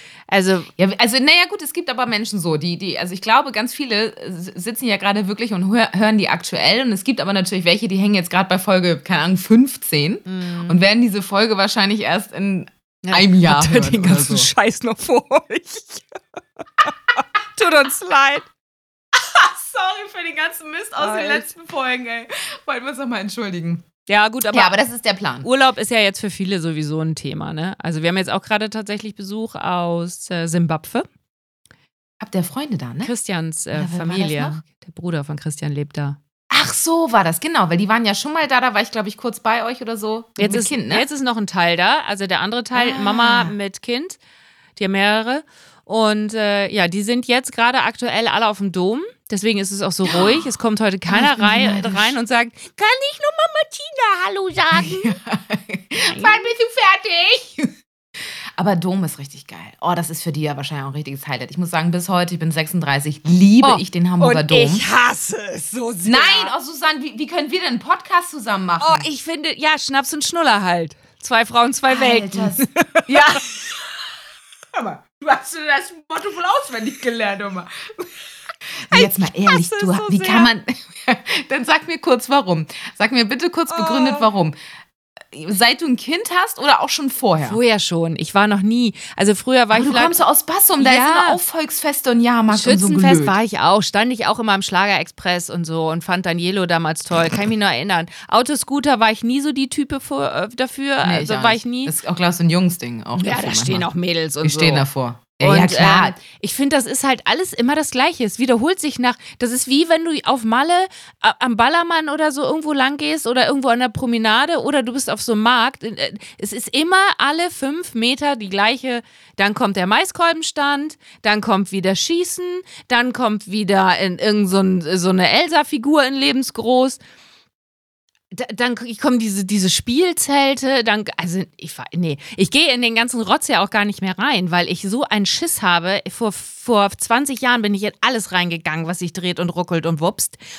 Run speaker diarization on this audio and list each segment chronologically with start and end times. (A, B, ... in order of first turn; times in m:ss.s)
0:00.3-0:00.7 A
0:00.8-0:14.5 B
0:10.2-0:10.8 A
0:13.0-0:16.2 A
0:17.6-0:18.5 A
0:19.1-0:23.8 B
0:21.0-0:21.5 A
0:24.1-0:24.7 A
0:24.5-0:25.5 B
0:25.4-0:31.1 A
0:32.2-0:33.1 B
0:33.0-0:36.2 A
0:33.7-0:34.6 B
0:36.5-0:41.1 B
0:40.4-0:44.2 A
0:42.7-0:43.5 B
0:44.8-0:55.1 A
0:50.1-0:50.4 B
0:51.1-0:52.1 B
0:54.7-0:57.7 B
0:56.0-0:56.4 A
0:58.6-1:04.8 B
1:03.6-1:06.5 A
1:06.0-1:09.1 B
1:08.8-1:13.2 A
1:11.9-1:14.0 B
1:14.7-1:18.1 B
1:18.9-1:24.5 B
1:18.9-1:20.5 A
1:23.7-1:24.3 A
1:25.2-1:27.6 B
1:27.4-1:30.2 A
1:29.7-1:33.3 B
1:30.8-1:31.4 A
1:32.5-1:41.9 A
1:41.0-1:43.9 B
1:43.2-1:44.9 A
1:44.4-1:46.2 B
1:45.4-2:07.0 A
2:08.3-2:20.4 A